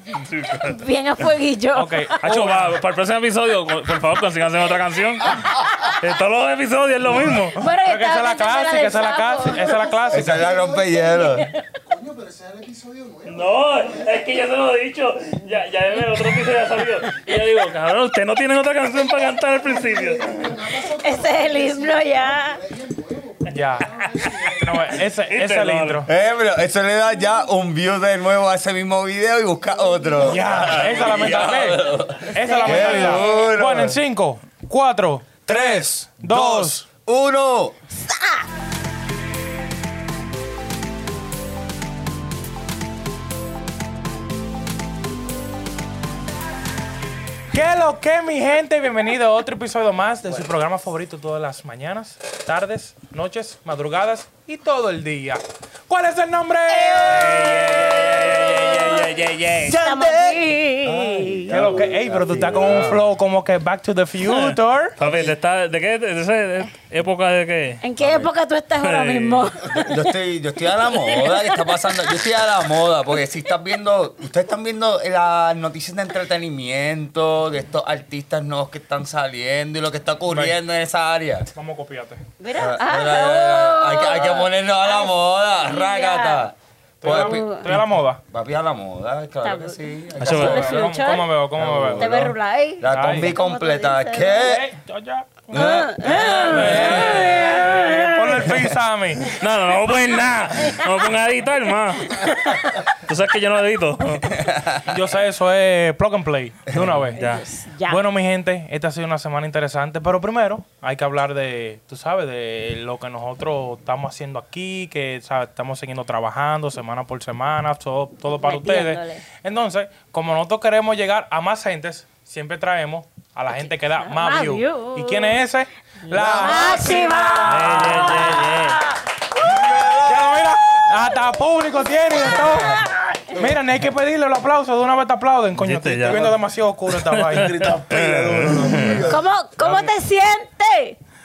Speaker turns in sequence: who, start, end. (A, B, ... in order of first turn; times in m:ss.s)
0:00.2-0:00.8 A
0:00.6-0:02.2 B
0:01.7-0:02.8 C
0:02.2-0:07.6 A
0:07.6-0:10.3 B
0:07.7-0:10.5 C
0:10.1-0:11.5 D
0:10.3-0:14.0 E
0:13.3-0:20.6 A
0:19.7-0:24.7 E
0:21.0-0:22.6 B
0:23.5-0:23.9 C
0:24.1-0:24.8 A
0:24.5-0:26.1 C
0:25.3-0:26.0 A
0:26.1-0:34.0 D
0:30.2-0:36.9 C
0:32.4-0:33.5 B
0:35.5-0:37.8 D
0:38.0-0:38.4 B
0:47.5-0:57.6 C
0:56.7-0:59.1 B
0:57.1-0:59.8 A
0:59.6-1:03.0 D
0:59.7-1:01.5 B
1:01.5-1:05.0 C
1:04.3-1:07.8 A
1:05.0-1:05.3 D
1:07.8-1:10.1 B
1:08.0-1:08.3 D
1:08.8-1:09.5 A
1:09.7-1:21.5 D
1:11.0-1:11.8 B
1:21.6-1:22.2 C
1:22.4-1:26.5 B
1:22.6-1:30.9 D
1:27.0-1:28.2 C
1:27.1-1:27.7 B
1:29.4-1:31.3 B
1:30.2-1:30.7 A
1:30.2-1:32.3 C
1:31.6-1:34.6 D
1:32.0-1:34.6 B
1:32.8-1:33.3 C
1:34.4-1:39.4 C
1:35.5-1:37.7 D
1:35.5-1:38.5 B
1:39.3-1:44.4 A
1:42.2-1:42.5 B
1:44.4-1:44.8 D
1:44.9-1:47.2 C
1:46.7-1:47.0 D
1:47.2-1:47.4 A
1:47.2-1:48.0 B
1:47.9-2:08.4 C
1:58.4-1:59.2 B
2:04.0-2:05.4 B
2:06.1-2:09.7 B
2:07.5-2:08.8 A
2:09.6-2:10.1 D
2:10.0-2:17.5 C
2:12.2-2:13.3 B
2:15.6-2:16.3 A
2:16.1-2:16.4 E
2:17.0-2:19.1 A
2:17.3-2:19.2 E
2:19.0-2:21.0 B